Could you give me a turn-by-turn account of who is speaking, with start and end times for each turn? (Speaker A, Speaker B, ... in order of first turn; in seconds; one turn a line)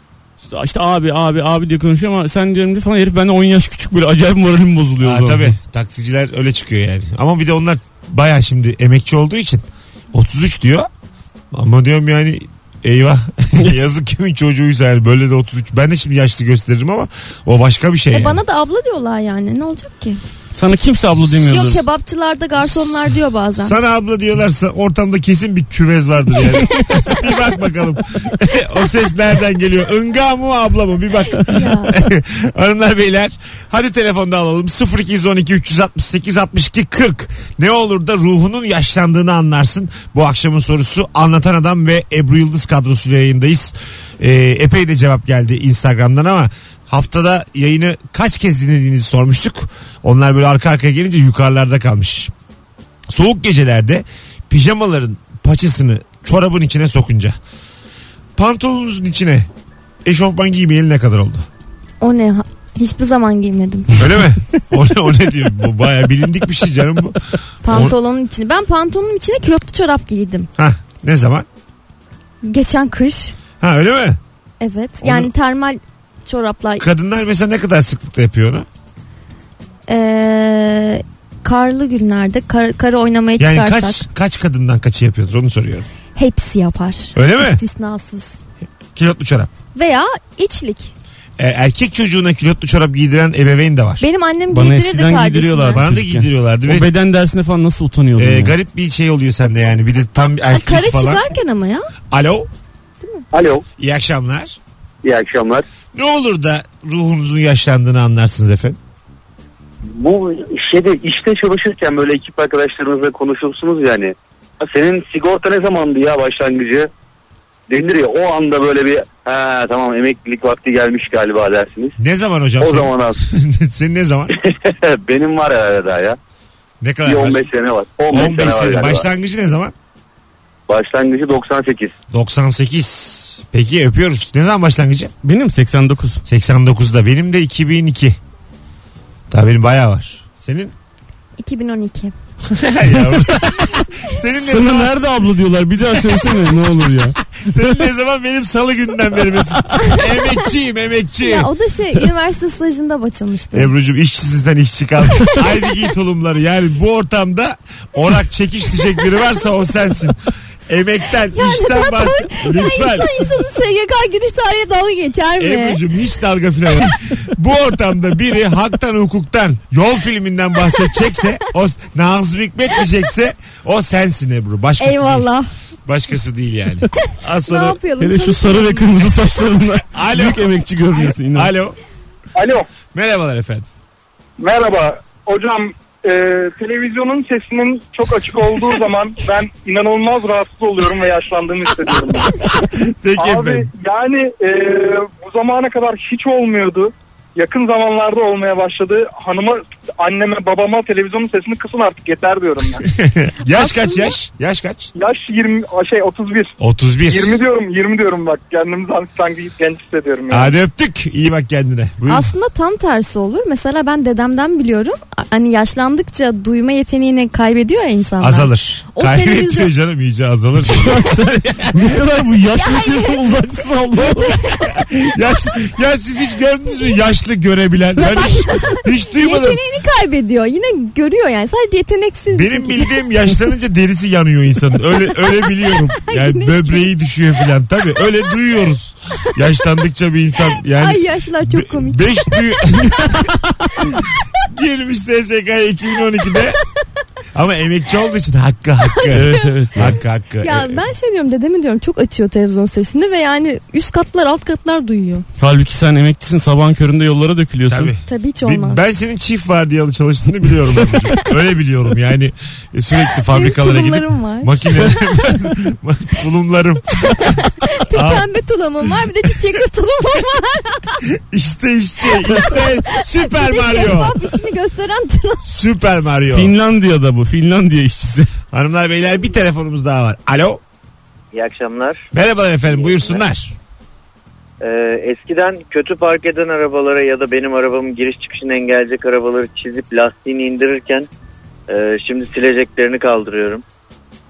Speaker A: 0.4-5.5
Speaker B: 5.0-10.9
Speaker B: 11.5-18.4
Speaker C: 18.1-20.2
Speaker A: 20.6-21.8
Speaker C: 21.4-23.8
Speaker B: 23.6-52.3
Speaker C: 31.5-32.0
Speaker B: 53.1-57.4
Speaker B: 58.4-59.5
Speaker B: 60.0-61.5
Speaker C: 62.0-64.0
Speaker B: 64.0-68.0
Speaker C: 67.6-70.5
Speaker B: 70.6-71.5
Speaker C: 72.5-73.3
Speaker B: 73.6-74.2
Speaker C: 74.6-76.8
Speaker B: 75.0-75.3
Speaker B: 76.8-78.7
Speaker C: 79.9-84.0
Speaker B: 83.4-85.9
Speaker C: 86.2-88.4
Speaker B: 87.2-87.6
Speaker B: 89.0-89.5
Speaker C: 89.8-90.9
Speaker B: 91.4-94.1
Speaker C: 94.0-95.8
Speaker A: 94.5-98.6
Speaker B: 95.8-96.9
Speaker B: 98.2-101.2
Speaker C: 100.5-101.9
Speaker B: 102.1-102.5
Speaker D: 103.3-103.7
Speaker B: 103.8-104.6
Speaker D: 105.0-105.6
Speaker B: 105.9-108.8
Speaker D: 109.9-116.9
Speaker D: 117.7-122.0
Speaker B: 122.0-124.3
Speaker D: 122.6-123.2
Speaker D: 124.3-126.2
Speaker B: 126.8-127.5
Speaker D: 127.0-129.1
Speaker B: 128.1-129.7
Speaker D: 130.7-131.9
Speaker B: 132.1-135.1
Speaker A: 135.2-136.2
Speaker B: 136.3-138.2
Speaker B: 139.3-140.7
Speaker C: 141.4-142.1
Speaker B: 142.5-145.0
Speaker A: 142.9-147.6
Speaker B: 147.3-151.5
Speaker C: 149.8-150.4
Speaker C: 151.2-153.7
Speaker B: 153.5-163.3
Speaker C: 161.3-165.8
Speaker B: 165.4-175.3
Speaker C: 174.8-175.5
Speaker B: 175.9-177.8
Speaker C: 177.1-178.9
Speaker A: 178.0-181.5
Speaker B: 179.9-181.8
Speaker E: 182.4-182.7
Speaker B: 182.9-183.7
Speaker E: 184.4-192.5
Speaker B: 192.2-193.7
Speaker E: 193.2-202.8
Speaker B: 202.8-204.9
Speaker C: 203.5-204.2
Speaker E: 204.9-206.5
Speaker B: 206.6-207.4
Speaker E: 207.1-210.6
Speaker B: 210.3-212.3
Speaker C: 212.1-219.7
Speaker B: 218.2-222.0
Speaker A: 220.6-224.4
Speaker C: 222.8-223.1
Speaker B: 224.5-229.6
Speaker C: 228.0-233.0
Speaker B: 232.3-246.6
Speaker C: 236.0-237.0
Speaker C: 240.7-242.7
Speaker B: 247.3-250.8
Speaker C: 248.9-249.5
Speaker A: 249.1-250.0
Speaker C: 250.4-255.2
Speaker A: 255.4-257.9
Speaker B: 257.7-267.4
Speaker C: 258.1-258.8
Speaker C: 263.2-265.0
Speaker C: 267.2-271.0
Speaker B: 267.9-268.3
Speaker B: 271.1-274.2
Speaker C: 272.1-275.5
Speaker B: 275.4-276.6
Speaker A: 276.3-278.3
Speaker B: 278.5-280.6
Speaker F: 281.3-282.1
Speaker B: 282.1-283.6
Speaker F: 282.7-283.2
Speaker F: 284.6-291.1
Speaker F: 291.7-293.6